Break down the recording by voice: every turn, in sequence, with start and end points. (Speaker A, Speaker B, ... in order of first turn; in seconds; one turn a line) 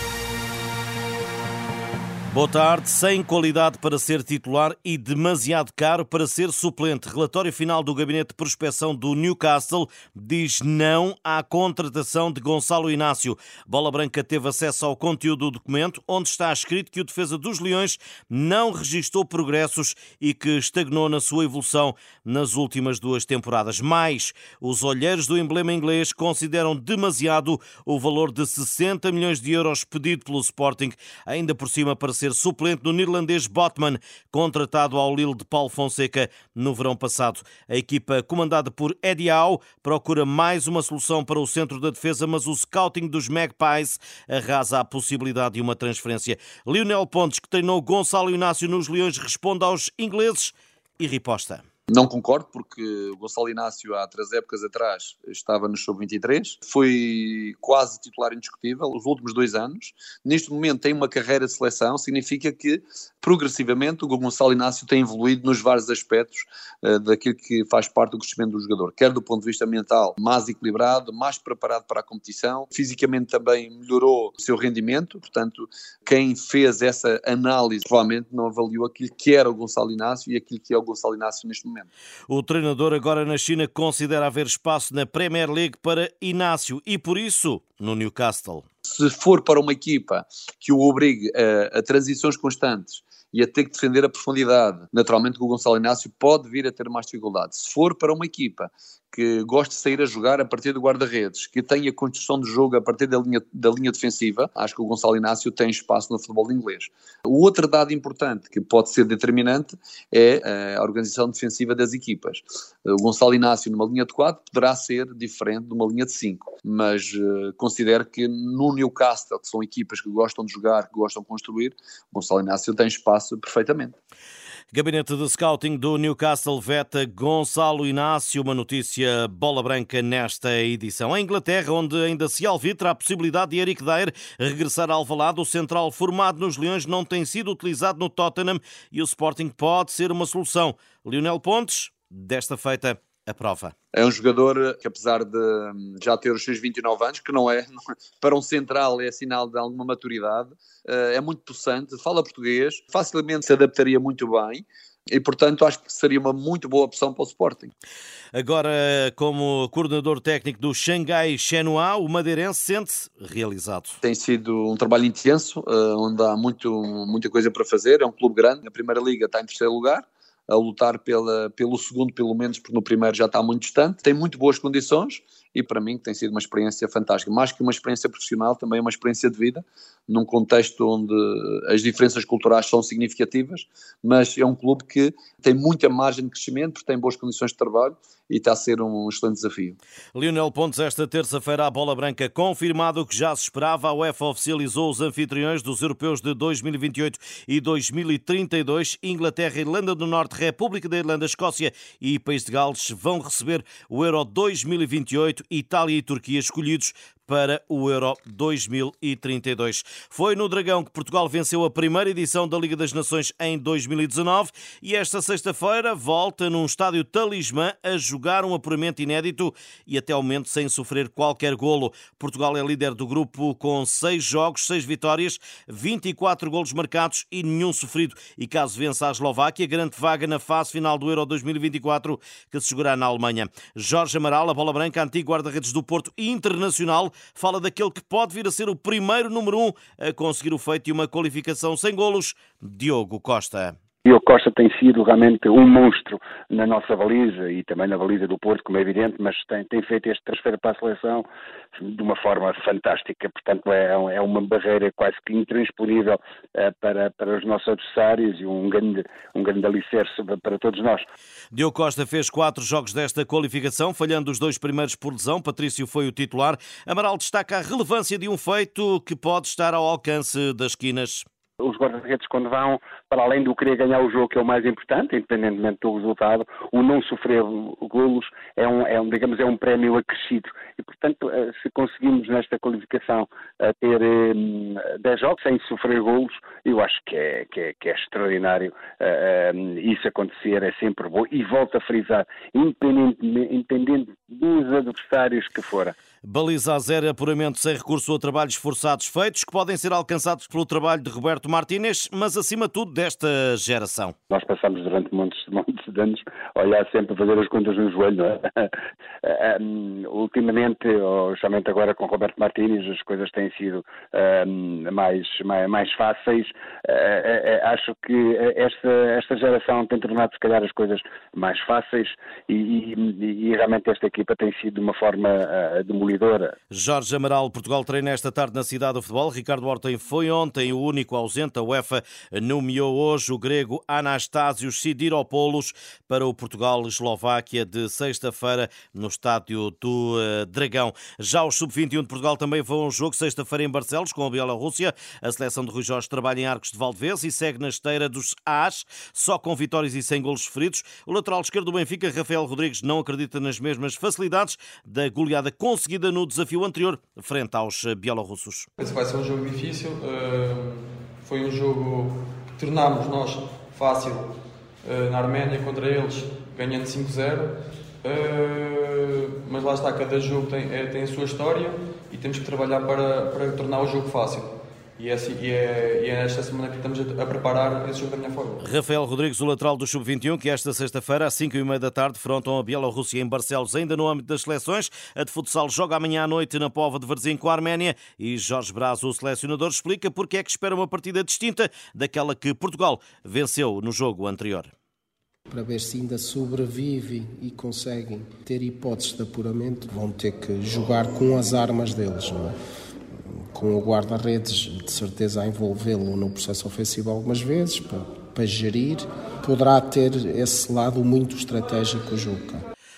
Speaker A: 2.3-51.6
Speaker B: 51.9-81.9
Speaker A: 82.3-88.6
Speaker B: 88.9-123.9
Speaker A: 124.7-143.7
Speaker B: 143.9-147.7
Speaker B: 148.2-157.7
Speaker A: 158.3-164.0
Speaker B: 164.0-189.8
Speaker A: 190.1-243.7
Speaker C: 244.0-251.2
Speaker C: 251.8-261.0
Speaker A: 261.5-271.2
Speaker C: 271.6-295.9
Speaker A: 296.2-304.1
Speaker C: 304.3-326.5
Speaker A: 326.7-358.7
Speaker D: 358.8-364.3
Speaker D: 364.8-378.6
Speaker A: 378.6-394.7
Speaker E: 395.5-402.5
Speaker E: 403.5-412.6